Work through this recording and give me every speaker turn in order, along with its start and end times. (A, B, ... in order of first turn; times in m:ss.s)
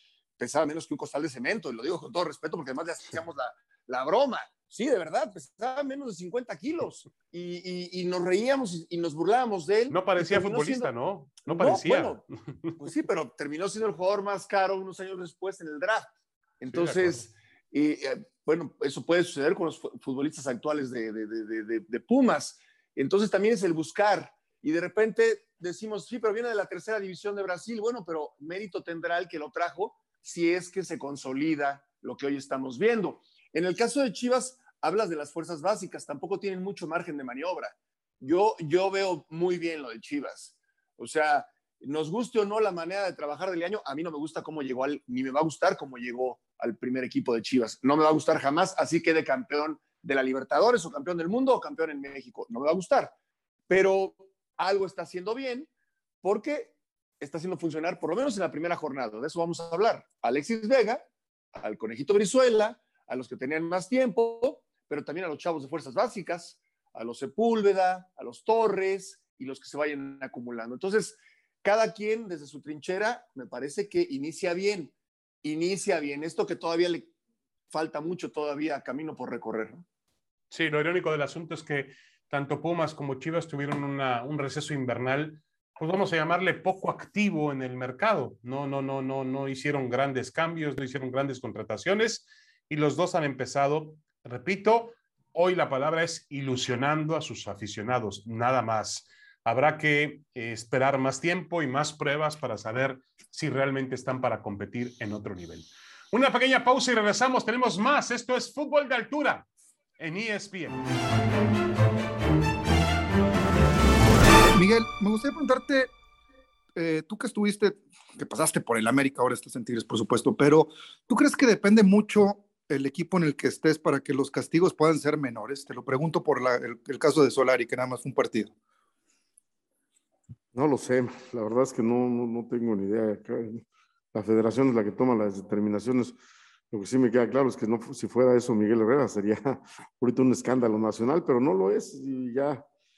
0:00.4-0:10.9 A
0:09.9-0:12.8 B
0:11.4-0:12.2 A
0:12.8-0:53.1 A
0:16.7-0:17.3 B
0:53.7-0:55.7 A
0:56.2-1:01.0 A
1:01.6-1:17.1 A
1:17.7-1:19.8 A
1:20.5-1:50.8 B
1:54.4-1:55.9 C
1:56.8-2:08.5 C
2:10.5-2:16.2 D
2:16.7-2:22.7 D